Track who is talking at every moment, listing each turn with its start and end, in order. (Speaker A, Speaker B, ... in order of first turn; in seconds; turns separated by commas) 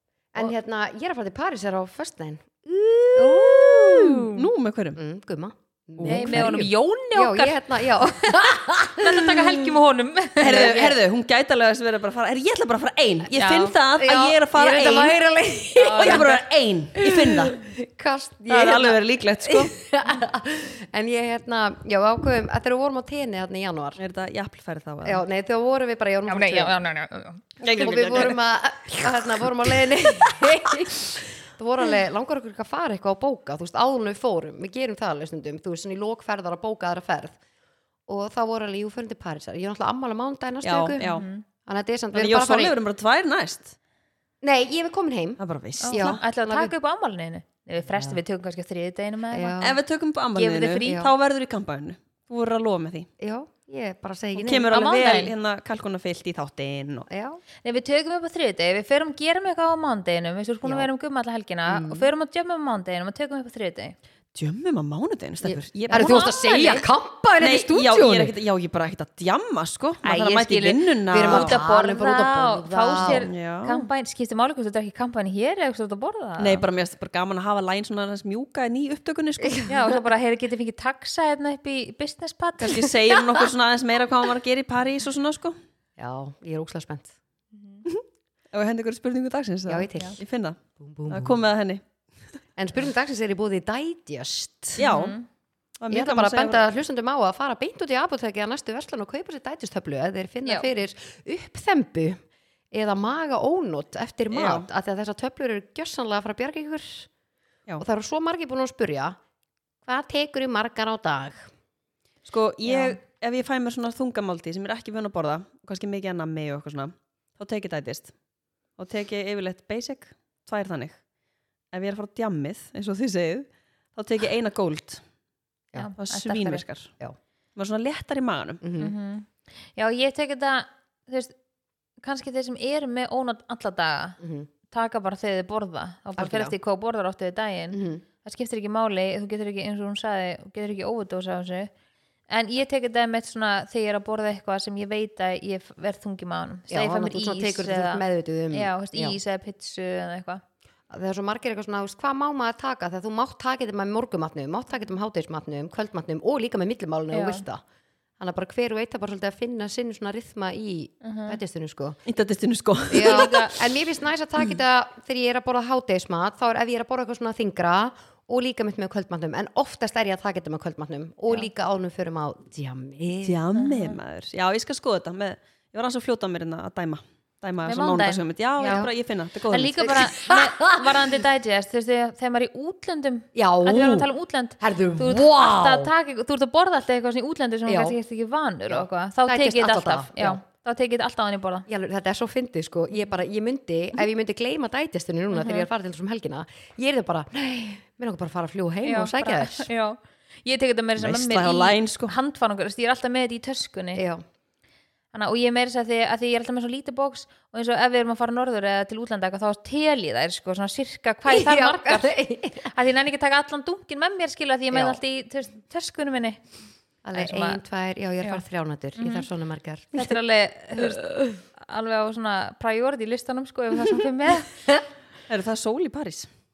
Speaker A: 0.3-4.3, Speaker B: 3.1-4.4, Speaker C: 3.5-5.0, Speaker A: 5.0-9.7, Speaker C: 6.0-6.7, Speaker B: 6.0-10.8, Speaker C: 10.4-15.2, Speaker A: 10.4-11.0, Speaker B: 13.3-13.8, Speaker A: 13.9-16.4, Speaker B: 15.8-16.4, Speaker C: 15.8-17.6, Speaker A: 17.0-24.0, Speaker C: 18.5-19.7, Speaker C: 24.0-25.2, Speaker A: 25.0-26.8, Speaker B: 26.3-27.4, Speaker C: 27.6-28.4, Speaker A: 27.7-37.4, Speaker A: 38.1-41.1, Speaker C: 40.6-41.2, Speaker B: 41.0-41.4, Speaker A: 41.6-42.8, Speaker C: 42.1-43.7, Speaker A: 44.4-45.4, Speaker C: 45.4-46.2, Speaker B: 45.8-49.6, Speaker A: 45.9-46.7, Speaker A: 47.9-48.2, Speaker A: 49.3-49.8, Speaker C: 49.6-53.1, Speaker B: 50.3-51.1, Speaker A: 53.2-54.8, Speaker C: 54.4-57.1, Speaker B: 54.7-55.3, Speaker A: 57.1-57.4, Speaker B: 57.6-64.0, Speaker A: 61.7-62.1, Speaker C: 64.3-66.3, Speaker A: 65.4-68.3, Speaker B: 65.9-66.8, Speaker C: 67.4-71.6, Speaker B: 70.0-76.6, Speaker A: 71.1-73.3, Speaker C: 73.0-73.9, Speaker C: 76.4-79.7, Speaker B: 79.7-82.9, Speaker C: 82.6-85.5, Speaker A: 86.0-87.1, Speaker B: 87.5-87.8, Speaker C: 87.8-91.8, Speaker A: 89.7-90.2, Speaker A: 90.8-91.4, Speaker A: 92.5-94.8, Speaker C: 94.8-95.2, Speaker B: 94.8-95.2, Speaker C: 95.8-96.6, Speaker A: 95.9-102.2, Speaker A: 102.7-107.1, Speaker C: 104.3-104.7, Speaker A: 107.8-109.2, Speaker A: 109.8-111.5, Speaker C: 112.2-118.1, Speaker C: 118.8-121.0, Speaker C: 121.7-125.0, Speaker B: 125.8-126.6, Speaker C: 126.0-126.9, Speaker C: 127.5-128.6, Speaker A: 128.6-128.9, Speaker B: 128.8-131.3, Speaker B: 132.0-134.2, Speaker A: 134.2-134.5, Speaker B: 134.7-141.7, Speaker A: 136.2-136.5, Speaker A: 137.7-138.0, Speaker B: 142.3-150.4, Speaker A: 146.7-149.2, Speaker A: 150.9-157.6, Speaker B: 157.1-157.4, Speaker A: 158.2-162.0, Speaker B: 161.0-161.4, Speaker C: 162.1-163.5, Speaker A: 162.9-173.4, Speaker B: 162.9-163.5, Speaker C: 173.2-180.0, Speaker B: 173.6-174.0, Speaker B: 177.6-178.9, Speaker B: 179.5-191.7, Speaker A: 179.8-180.9, Speaker A: 183.3-184.1, Speaker A: 184.6-185.9, Speaker A: 187.7-188.0, Speaker A: 188.7-190.4, Speaker A: 191.7-199.7, Speaker B: 195.3-195.7, Speaker B: 198.8-204.0, Speaker C: 201.0-202.1, Speaker A: 203.9-204.2, Speaker B: 205.1-216.4, Speaker A: 211.3-212.7, Speaker A: 214.7-215.0, Speaker A: 217.0-220.2, Speaker B: 217.1-217.6, Speaker B: 218.9-219.3, Speaker B: 219.9-224.6, Speaker A: 220.8-221.4, Speaker C: 225.3-226.3